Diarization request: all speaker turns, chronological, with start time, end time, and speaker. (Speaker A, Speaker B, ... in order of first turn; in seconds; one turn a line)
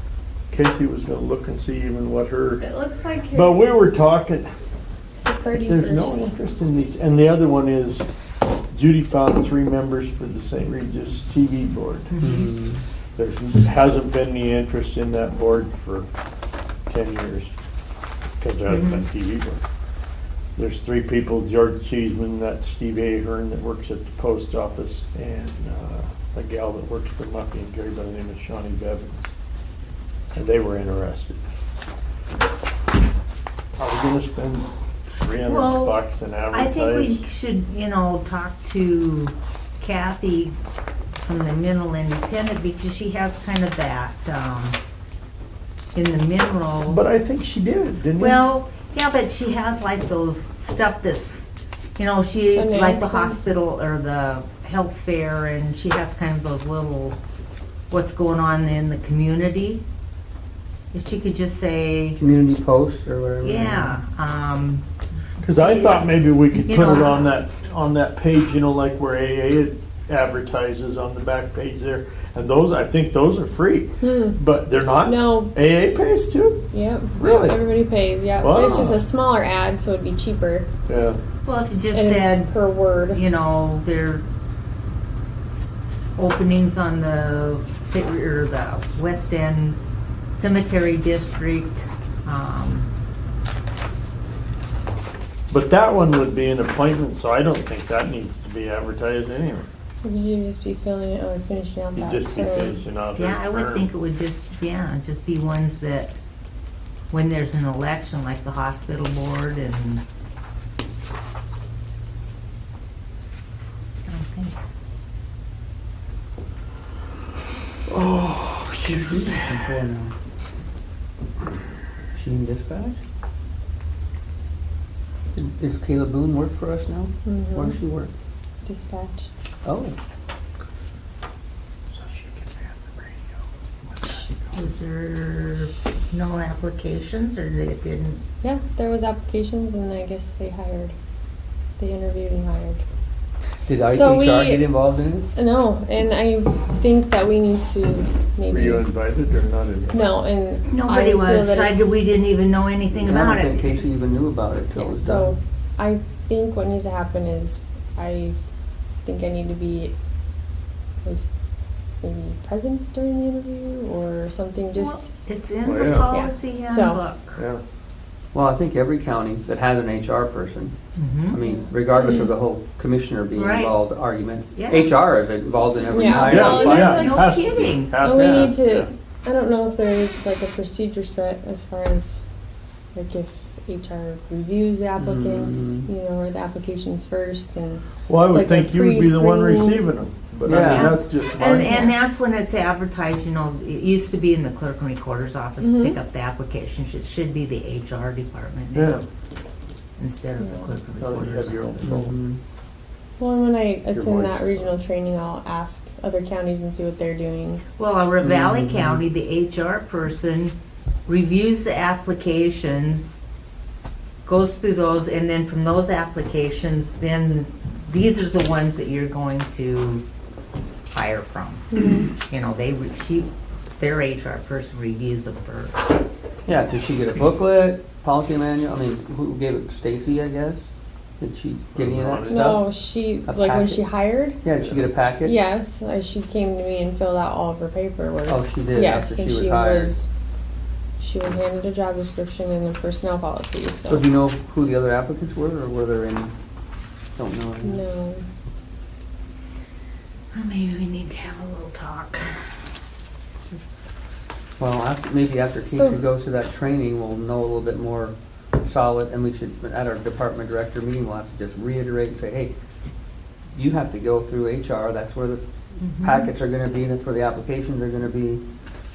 Speaker A: 0.5-2.6
Speaker B: 2.6-3.7
Speaker A: 3.3-4.5
Speaker B: 5.2-6.3
Speaker A: 5.7-8.1
Speaker A: 8.7-12.1
Speaker C: 12.1-12.4
Speaker D: 12.2-12.8
Speaker A: 13.2-16.1
Speaker A: 16.9-17.5
Speaker A: 18.4-19.6
Speaker C: 18.7-19.1
Speaker A: 20.6-29.3
Speaker A: 30.3-31.4
Speaker A: 33.8-34.7
Speaker A: 35.2-37.2
Speaker C: 35.4-40.5
Speaker C: 41.2-44.8
Speaker C: 45.9-47.0
Speaker A: 46.9-48.4
Speaker C: 48.2-57.2
Speaker B: 52.5-53.5
Speaker C: 57.9-59.8
Speaker C: 60.9-62.2
Speaker D: 62.1-64.0
Speaker C: 63.4-64.8
Speaker A: 65.4-76.6
Speaker C: 65.5-67.3
Speaker B: 74.0-74.4
Speaker B: 75.0-75.5
Speaker B: 76.7-80.7
Speaker D: 77.2-77.5
Speaker A: 77.2-77.5
Speaker A: 78.4-79.0
Speaker A: 80.9-81.2
Speaker C: 81.4-84.2
Speaker B: 81.9-83.2
Speaker C: 86.2-89.8
Speaker C: 90.3-92.9
Speaker A: 95.5-99.7
Speaker B: 100.0-102.8
Speaker A: 102.0-103.9
Speaker C: 103.2-106.1
Speaker C: 107.1-110.0
Speaker C: 114.1-114.7
Speaker A: 117.9-119.8
Speaker D: 119.0-120.1
Speaker D: 122.1-123.0
Speaker D: 125.3-128.1
Speaker B: 127.2-127.8
Speaker B: 128.6-129.3
Speaker D: 129.6-129.9
Speaker A: 131.9-133.2
Speaker A: 133.8-134.5
Speaker C: 134.5-138.2
Speaker B: 138.4-140.9
Speaker B: 141.8-142.8
Speaker D: 143.7-145.2
Speaker B: 143.9-144.7
Speaker B: 145.3-148.9
Speaker A: 148.5-150.0
Speaker B: 149.9-152.0
Speaker C: 150.7-153.7
Speaker D: 152.9-155.3
Speaker B: 154.7-158.4
Speaker B: 159.0-159.9
Speaker B: 161.0-161.3
Speaker B: 162.0-165.1
Speaker C: 164.7-167.4
Speaker A: 165.6-166.1
Speaker B: 166.1-167.0
Speaker A: 167.3-167.6
Speaker D: 168.3-170.7
Speaker C: 170.9-171.4
Speaker D: 171.3-177.2
Speaker B: 171.4-172.3
Speaker C: 173.3-173.7
Speaker C: 174.5-174.9
Speaker B: 175.9-177.3
Speaker A: 176.2-178.9
Speaker C: 176.5-178.0
Speaker B: 178.0-182.2
Speaker D: 178.1-178.6
Speaker B: 182.9-189.9
Speaker D: 185.0-185.9
Speaker A: 188.1-191.9
Speaker D: 190.4-191.0
Speaker C: 190.6-198.9
Speaker B: 191.4-191.9
Speaker B: 195.6-196.0
Speaker A: 198.7-199.0
Speaker C: 200.0-202.1
Speaker B: 200.4-200.7
Speaker A: 201.0-202.1
Speaker D: 201.8-202.4
Speaker B: 203.2-207.6
Speaker A: 203.9-204.7
Speaker C: 207.8-210.5
Speaker D: 208.2-209.0
Speaker C: 211.1-213.2
Speaker C: 214.2-220.0
Speaker C: 220.9-225.8
Speaker D: 226.5-232.6
Speaker A: 231.7-232.5
Speaker B: 232.3-234.4
Speaker D: 233.2-233.8
Speaker D: 234.4-235.4
Speaker B: 235.2-240.1
Speaker D: 238.3-239.9
Speaker B: 241.0-244.1
Speaker D: 243.9-246.3
Speaker D: 247.2-247.8
Speaker B: 247.6-248.2
Speaker C: 250.3-252.3
Speaker D: 254.6-262.5
Speaker B: 255.6-256.0
Speaker D: 263.5-265.4
Speaker C: 265.8-266.3
Speaker D: 266.0-268.4